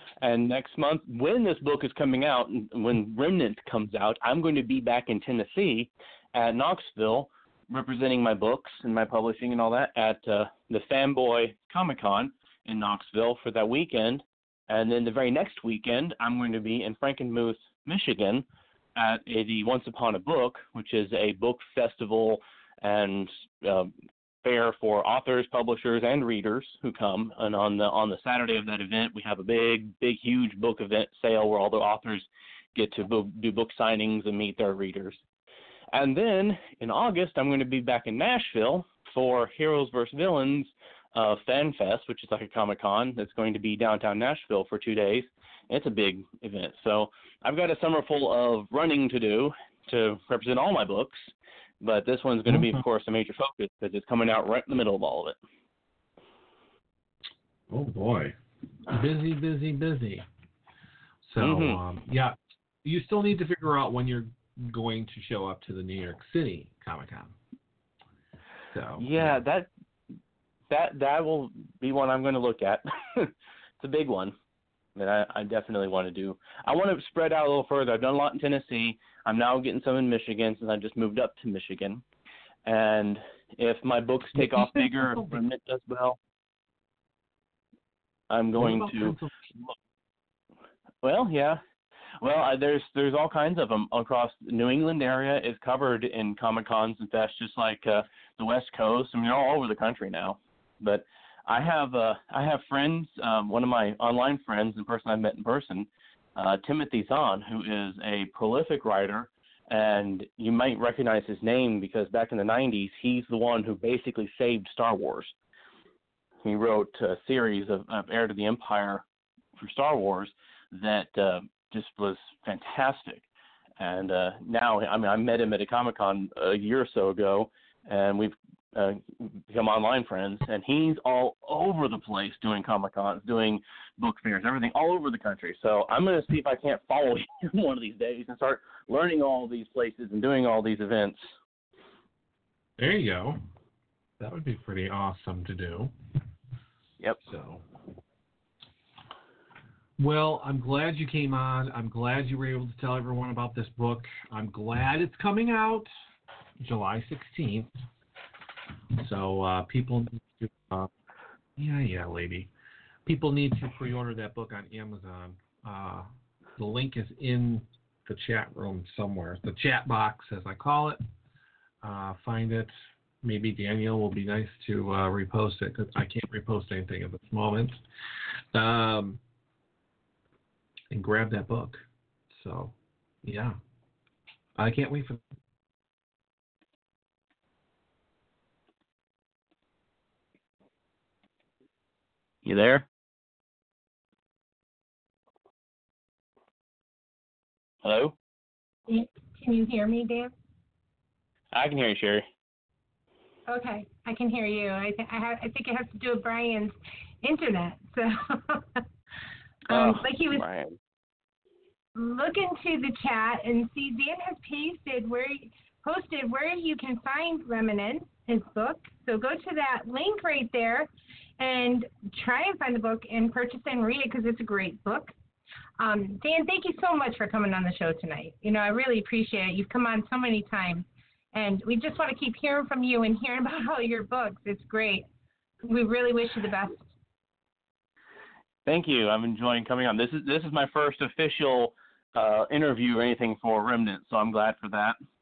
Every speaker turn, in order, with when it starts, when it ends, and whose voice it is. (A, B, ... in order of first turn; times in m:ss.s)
0:00.2-0:23.9 A
0:24.4-0:35.2 A
0:35.9-0:55.4 A
0:57.7-0:58.4 B
0:58.9-1:00.3 B
1:01.2-1:07.4 B
1:01.4-1:01.8 A
1:08.7-1:09.4 B
1:09.0-1:09.7 A
1:10.7-1:14.4 A
1:15.0-1:22.0 A
1:22.6-1:26.2 A
1:24.4-1:25.4 B
1:28.3-1:29.2 A
1:28.6-1:29.8 B
1:31.0-1:31.6 A
1:32.2-1:55.3 A
1:56.4-1:59.0 A
1:59.6-2:03.2 A
2:03.8-2:21.3 A
2:22.8-2:23.4 B
2:24.2-2:25.9 B
2:27.2-2:27.6 B
2:30.0-2:35.9 B
2:36.6-2:37.7 B
2:39.0-2:40.9 B
2:41.6-2:42.5 B
2:43.0-2:51.0 B
2:51.8-2:57.8 B
2:58.5-2:59.2 B
3:00.9-3:03.6 B
3:04.6-3:05.2 B
3:12.4-3:12.9 A
3:17.8-3:18.1 A
3:18.9-3:20.3 C
3:21.5-3:22.2 A
3:23.5-3:28.8 C
3:29.7-3:30.8 A
3:29.7-3:30.4 C
3:32.0-3:45.1 C
3:45.8-3:55.0 C
3:55.6-3:56.9 C
3:58.7-4:05.0 A